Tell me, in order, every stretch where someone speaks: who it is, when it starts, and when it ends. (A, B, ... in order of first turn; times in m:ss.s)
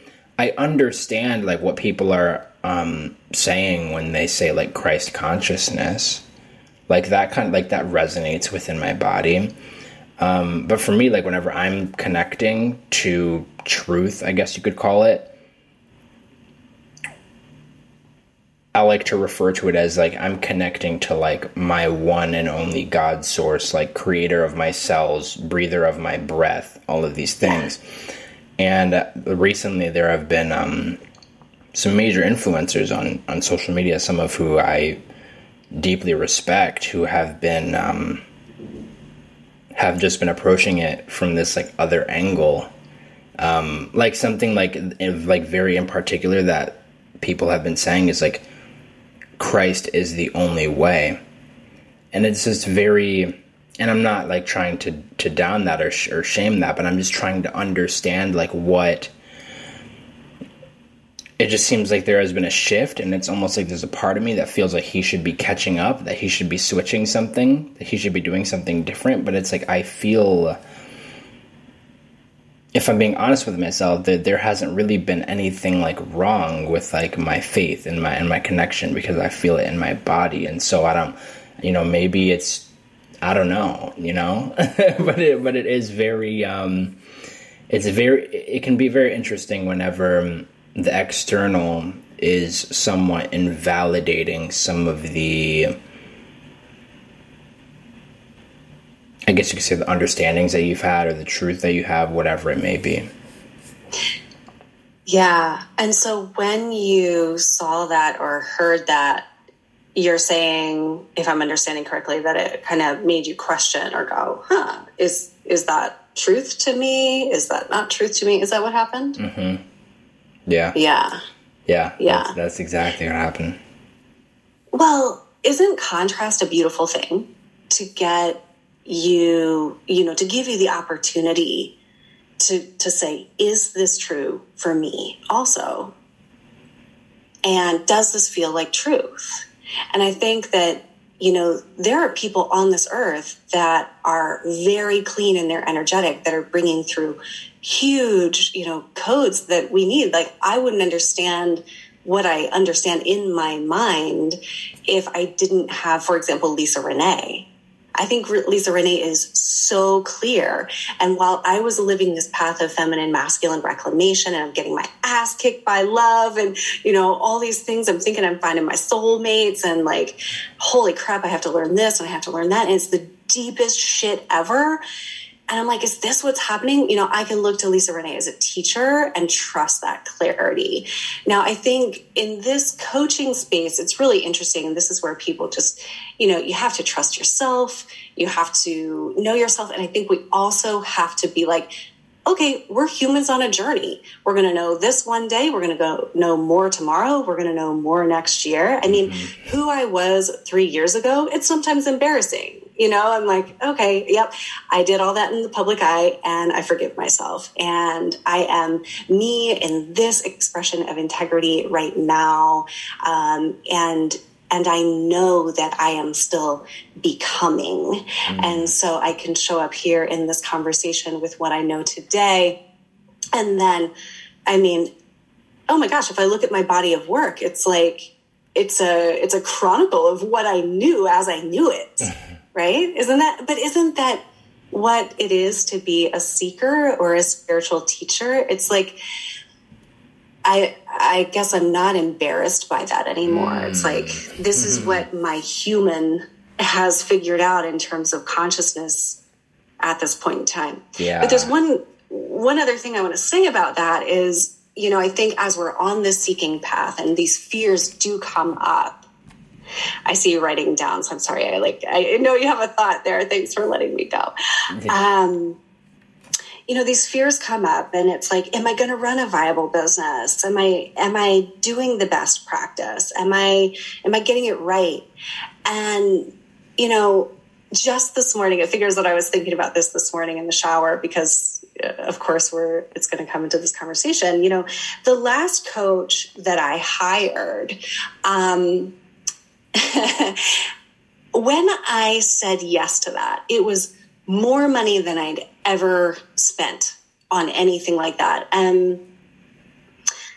0:00.4-0:06.2 A
0:06.9-0:09.5 A
0:10.2-0:15.3 A
0:18.7-0:27.8 A
0:28.6-0:31.0 A
0:31.7-0:35.0 A
0:35.7-0:38.2 A
0:39.7-0:42.7 A
0:43.4-0:48.4 A
0:49.4-0:51.2 A
0:52.1-0:59.1 A
1:01.4-1:10.6 A
1:12.7-1:22.7 A
1:23.2-1:27.0 A
1:27.7-1:35.8 A
1:39.3-1:43.1 A
1:45.1-1:49.3 B
1:49.9-1:59.2 B
1:59.2-1:59.6 A
2:00.5-2:00.8 A
2:00.7-2:01.2 B
2:01.7-2:03.6 A
2:02.0-2:02.3 B
2:04.7-2:11.7 B
2:12.4-2:15.9 B
2:17.4-2:54.8 B
2:55.5-3:11.7 B
3:12.3-3:42.6 B
3:18.9-3:19.4 A
3:38.3-3:38.7 A
3:43.3-3:43.9 B
3:44.5-3:44.9 B
3:45.7-3:59.0 B
4:00.4-4:09.2 B
4:03.2-4:05.0 A
4:09.8-4:19.0 B
4:11.0-4:11.5 A
4:20.0-4:24.3 B
4:24.9-4:25.6 B
4:26.7-4:35.0 B
4:35.6-4:48.9 B
4:49.8-4:50.6 B
4:51.3-4:59.0 B